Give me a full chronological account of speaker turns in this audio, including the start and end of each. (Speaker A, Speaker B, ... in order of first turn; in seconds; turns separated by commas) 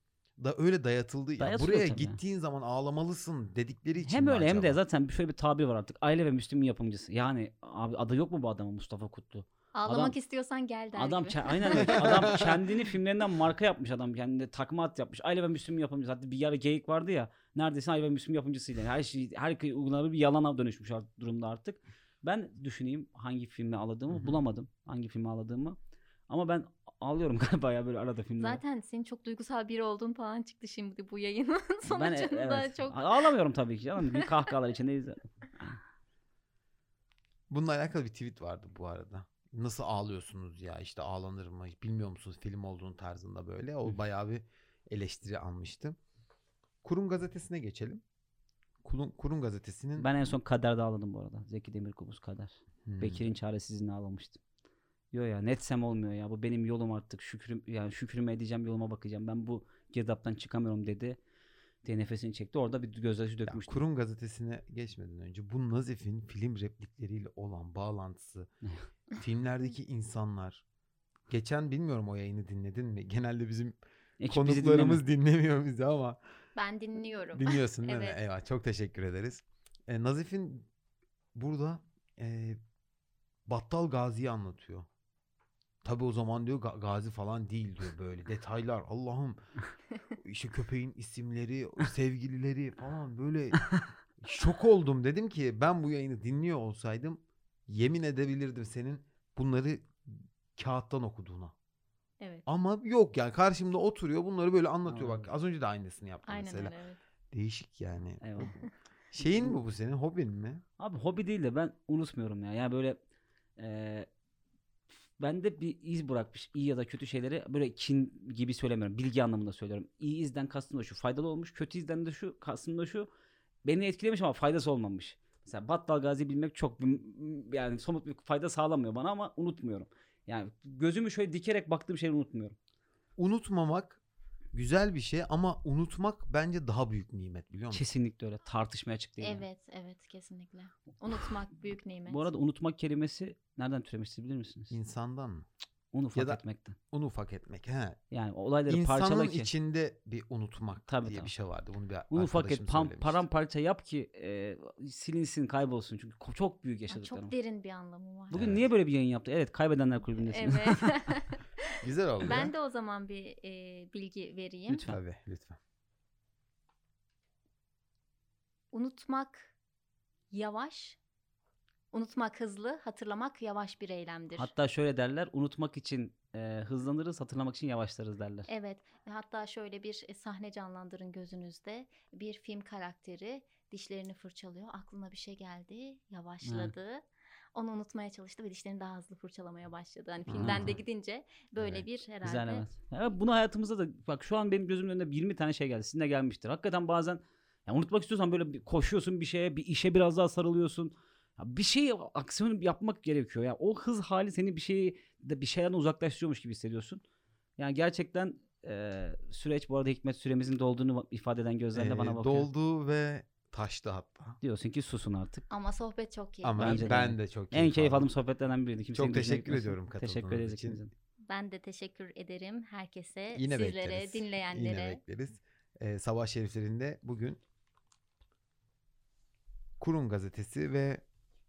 Speaker A: 0.4-4.8, Speaker B: 1.4-2.2, Speaker B: 4.0-10.2, Speaker C: 9.7-12.0, Speaker B: 11.0-25.8, Speaker A: 11.7-12.5, Speaker A: 24.1-24.4, Speaker B: 26.3-28.6, Speaker C: 28.4-33.3, Speaker B: 31.9-35.8, Speaker C: 34.1-34.5, Speaker A: 37.5-46.0, Speaker A: 46.8-48.0, Speaker A: 48.8-50.1, Speaker B: 50.0-54.4, Speaker A: 52.9-53.2, Speaker B: 55.1-61.2, Speaker B: 61.8-63.8, Speaker A: 63.5-68.5, Speaker A: 69.2-70.6, Speaker A: 71.3-76.2, Speaker B: 74.2-75.0, Speaker C: 76.5-78.2, Speaker A: 77.3-80.7, Speaker A: 81.3-82.6, Speaker A: 83.5-84.9, Speaker A: 85.8-89.4, Speaker A: 90.2-101.5, Speaker C: 102.2-102.5, Speaker A: 102.5-106.7, Speaker B: 104.9-105.3, Speaker C: 106.3-107.0, Speaker A: 107.3-108.6, Speaker B: 108.2-108.6, Speaker A: 109.1-110.6, Speaker B: 109.3-109.6, Speaker B: 110.8-113.0, Speaker B: 113.6-114.1, Speaker B: 115.2-123.1, Speaker B: 123.6-132.6, Speaker A: 133.2-134.0, Speaker A: 134.5-137.8, Speaker B: 137.7-139.5, Speaker C: 139.2-142.3, Speaker B: 142.1-144.8, Speaker A: 144.7-145.5, Speaker B: 145.9-146.8, Speaker A: 146.1-148.0, Speaker B: 148.1-149.5, Speaker A: 148.7-153.2, Speaker B: 150.9-151.3, Speaker B: 152.1-157.3, Speaker C: 156.9-158.5, Speaker B: 158.3-161.1, Speaker A: 158.3-158.6, Speaker C: 160.2-164.9, Speaker A: 161.8-162.5, Speaker B: 164.7-165.0, Speaker A: 164.9-165.6, Speaker C: 168.7-169.5, Speaker C: 170.3-171.0, Speaker C: 171.9-174.5, Speaker B: 174.4-178.5, Speaker C: 178.5-192.7, Speaker B: 186.4-186.7, Speaker A: 190.3-190.8, Speaker B: 190.4-190.8, Speaker B: 192.2-207.0, Speaker B: 207.6-212.5, Speaker A: 211.8-214.4, Speaker B: 214.4-215.5, Speaker C: 215.5-217.0, Speaker A: 216.4-218.1, Speaker B: 216.6-220.9, Speaker A: 218.9-220.8, Speaker C: 221.3-225.0, Speaker A: 223.3-227.4, Speaker A: 229.8-231.0